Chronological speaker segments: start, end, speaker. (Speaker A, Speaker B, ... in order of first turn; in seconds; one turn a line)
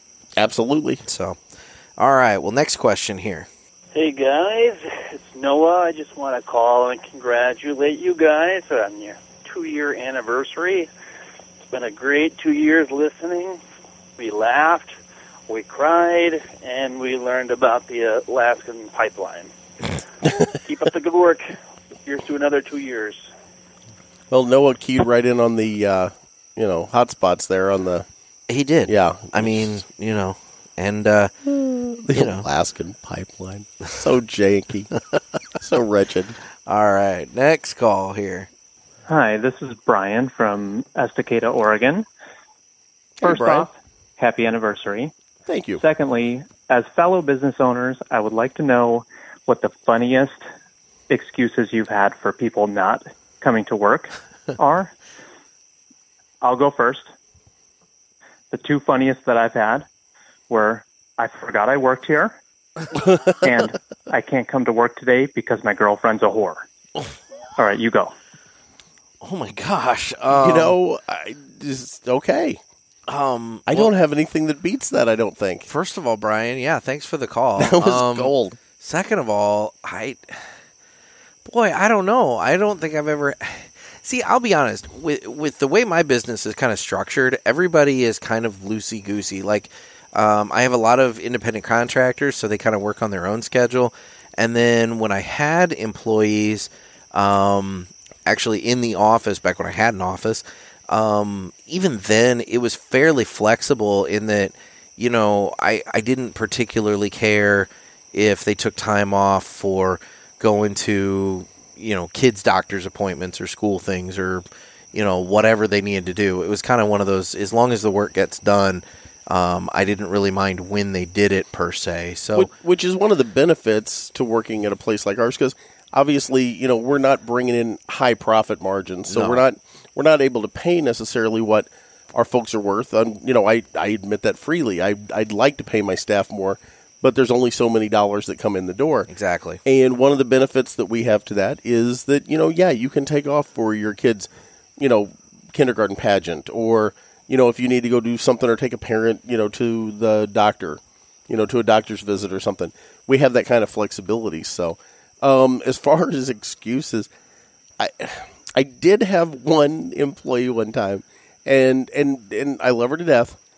Speaker A: 0.4-1.0
Speaker B: 1.0-1.4
Speaker B: 2.0-3.5
Speaker C: 3.9-10.9
Speaker C: 11.7-13.6
Speaker C: 14.2-14.9
Speaker C: 15.5-19.5
Speaker C: 20.6-21.4
Speaker C: 22.1-23.3
Speaker A: 24.3-28.1
Speaker B: 28.5-31.3
Speaker A: 28.9-29.8
Speaker A: 31.4-34.9
Speaker B: 32.1-32.5
Speaker A: 35.6-36.4
Speaker B: 36.7-38.5
Speaker D: 39.1-42.1
Speaker A: 43.2-43.7
Speaker D: 43.2-45.1
Speaker A: 45.5-45.8
Speaker D: 45.8-50.4
Speaker D: 51.1-54.9
Speaker D: 56.4-57.1
Speaker D: 58.5-59.9
Speaker D: 60.5-62.4
Speaker A: 63.0-63.3
Speaker D: 63.4-66.7
Speaker D: 67.6-68.1
Speaker B: 69.2-70.8
Speaker A: 70.3-72.6
Speaker B: 73.1-73.9
Speaker A: 73.7-75.7
Speaker B: 75.7-80.5
Speaker A: 77.6-78.6
Speaker B: 81.5-122.5
Speaker A: 122.3-139.1
Speaker B: 129.1-129.4
Speaker B: 139.1-139.6
Speaker A: 139.7-157.1
Speaker A: 157.8-163.4